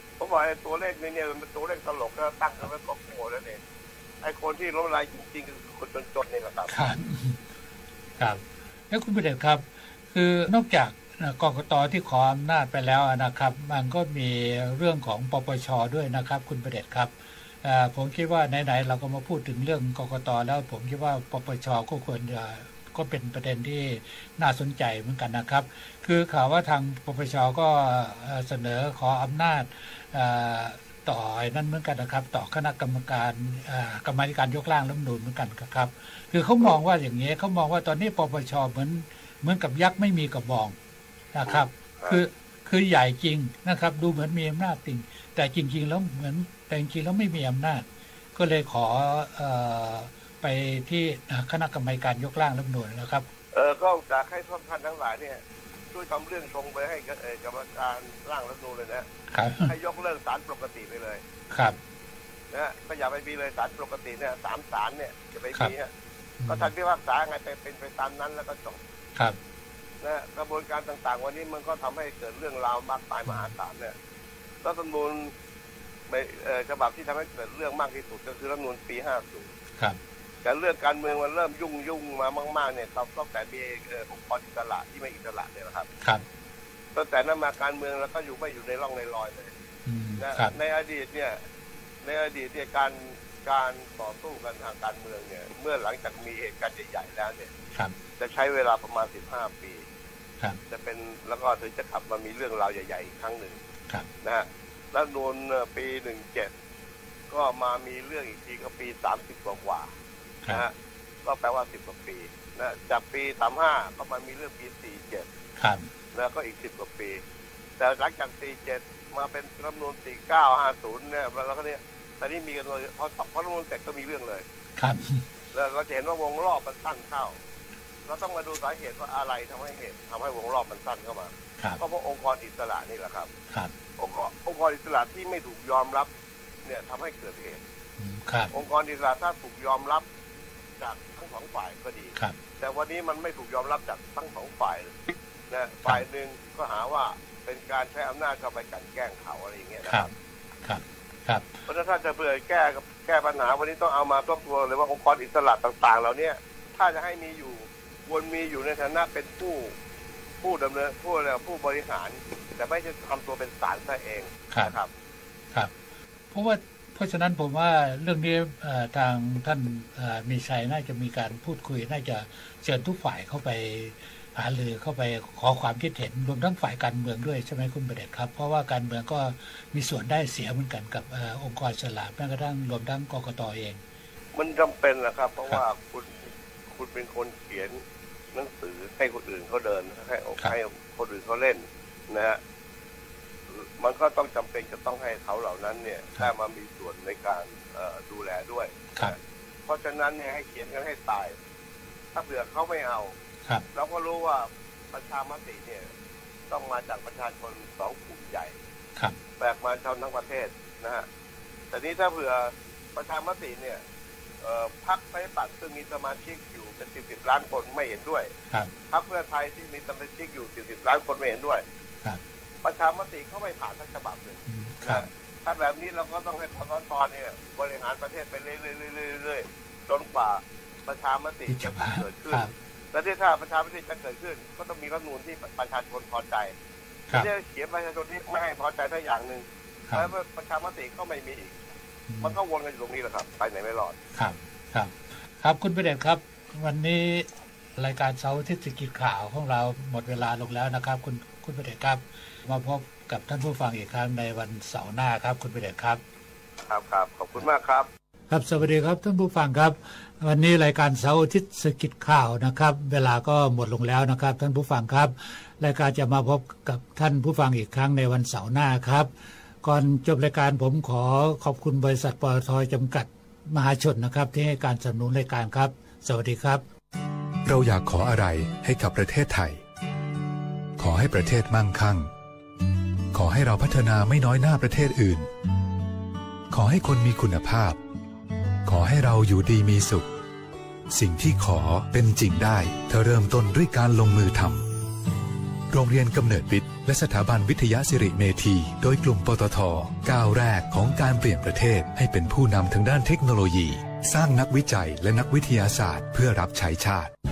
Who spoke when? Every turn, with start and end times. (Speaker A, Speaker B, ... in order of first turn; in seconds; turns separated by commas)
Speaker A: 0.2-3.6, Speaker A: 4.2-6.8, Speaker B: 6.7-7.4, Speaker B: 8.2-17.1, Speaker B: 17.6-40.8, Speaker B: 41.3-53.3, Speaker A: 41.5-42.2, Speaker A: 53.5-55.4, Speaker A: 55.9-59.1, Speaker B: 59.3-59.7, Speaker A: 59.7-61.2, Speaker B: 61.5-61.8, Speaker A: 62.5-65.9, Speaker B: 66.4-66.7, Speaker A: 66.5-68.8, Speaker A: 70.0-74.0, Speaker A: 74.6-75.3, Speaker A: 76.1-79.5, Speaker A: 80.4-85.9, Speaker A: 87.0-89.5, Speaker B: 89.9-90.5, Speaker A: 90.2-91.4, Speaker A: 92.0-97.5, Speaker A: 98.2-99.8, Speaker A: 100.7-103.6, Speaker A: 104.2-106.5, Speaker A: 107.3-109.9, Speaker A: 111.3-115.3, Speaker B: 115.6-115.9, Speaker A: 116.1-117.2, Speaker A: 117.8-124.5, Speaker B: 124.8-125.2, Speaker A: 125.5-127.4, Speaker A: 128.1-133.3, Speaker A: 134.0-136.1, Speaker A: 136.7-137.6, Speaker B: 138.0-138.6, Speaker A: 138.5-140.1, Speaker A: 140.8-150.1, Speaker B: 150.6-151.5, Speaker A: 151.7-159.8, Speaker A: 160.4-164.9, Speaker B: 166.3-183.8, Speaker A: 184.3-186.2, Speaker A: 186.7-187.8, Speaker A: 188.3-192.4, Speaker A: 193.5-201.4, Speaker A: 202.1-203.2, Speaker A: 203.7-205.9, Speaker A: 206.5-208.6, Speaker A: 209.4-211.1, Speaker A: 211.7-213.8, Speaker A: 214.4-218.3, Speaker A: 218.9-221.6, Speaker A: 222.6-236.5, Speaker B: 224.5-225.1, Speaker B: 231.5-232.5, Speaker A: 237.1-241.6, Speaker B: 242.1-242.4, Speaker A: 242.2-244.0, Speaker B: 244.2-256.0, Speaker A: 256.7-257.9, Speaker B: 258.3-269.1, Speaker B: 269.6-276.6, Speaker C: 277.4-279.6, Speaker C: 280.8-282.1, Speaker C: 283.1-285.3, Speaker C: 286.5-287.8, Speaker C: 288.6-290.1, Speaker C: 290.9-294.6, Speaker C: 295.7-307.1